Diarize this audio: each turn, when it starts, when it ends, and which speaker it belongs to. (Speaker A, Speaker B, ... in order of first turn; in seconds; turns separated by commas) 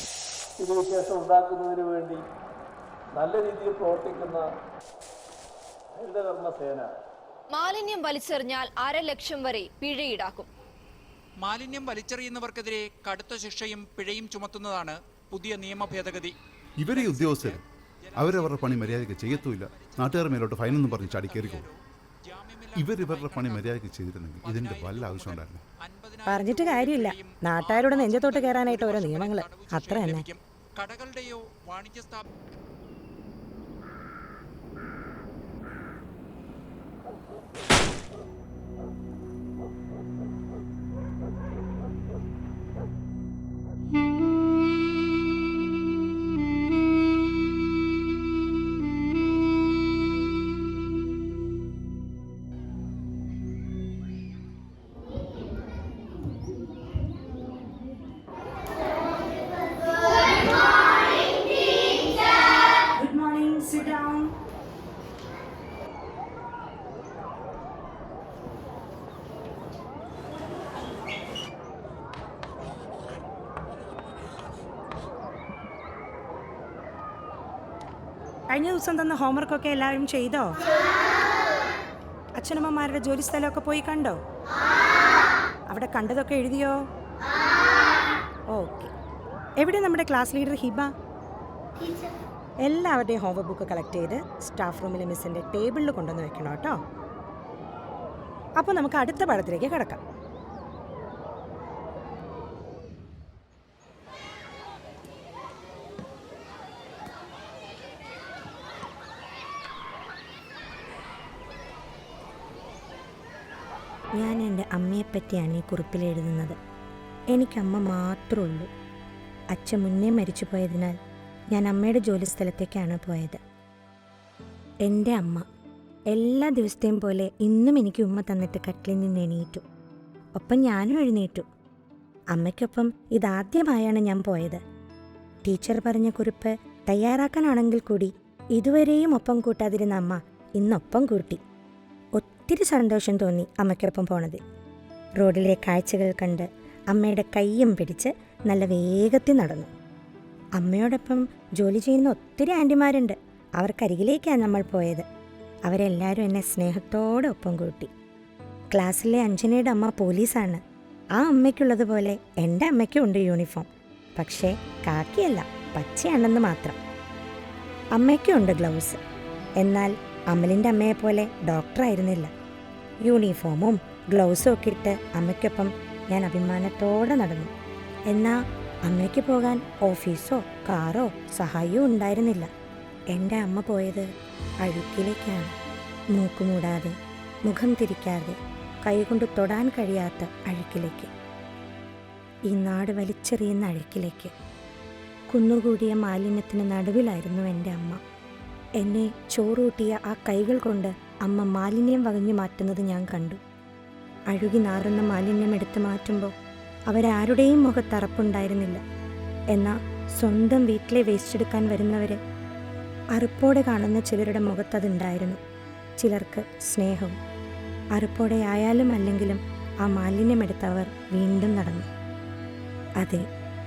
Speaker A: 0.6-2.2, Speaker A: 3.1-4.4, Speaker A: 5.9-6.9, Speaker B: 7.5-10.5, Speaker C: 11.4-16.3, Speaker D: 16.8-17.6, Speaker C: 16.9-21.7, Speaker D: 18.1-21.6, Speaker C: 22.2-23.7, Speaker D: 22.7-25.6, Speaker C: 24.4-32.2, Speaker E: 26.3-30.2, Speaker E: 63.0-64.3, Speaker E: 78.5-80.5, Speaker E: 82.4-84.2, Speaker E: 85.7-86.7, Speaker E: 88.5-88.9, Speaker E: 89.6-90.9, Speaker E: 92.7-96.8, Speaker E: 98.6-100.0, Speaker E: 114.2-116.6, Speaker E: 117.3-118.7, Speaker E: 119.5-121.0, Speaker E: 121.5-123.4, Speaker E: 124.8-125.4, Speaker E: 126.1-129.6, Speaker E: 130.4-131.4, Speaker E: 132.3-134.6, Speaker E: 135.4-141.4, Speaker E: 142.2-144.4, Speaker E: 145.2-149.7, Speaker E: 150.6-155.1, Speaker E: 155.7-157.9, Speaker E: 158.7-160.6, Speaker E: 161.2-166.8, Speaker E: 167.9-169.0, Speaker E: 169.6-172.3, Speaker E: 173.0-177.5, Speaker E: 178.1-182.5, Speaker E: 183.1-184.1, Speaker E: 184.6-185.5, Speaker E: 186.1-186.9, Speaker E: 187.4-191.1, Speaker E: 192.5-194.3, Speaker E: 195.3-198.0, Speaker E: 198.8-203.4, Speaker E: 204.3-206.3, Speaker E: 206.9-208.8, Speaker E: 209.5-212.2, Speaker E: 213.1-215.4, Speaker E: 216.0-217.2, Speaker E: 217.9-221.9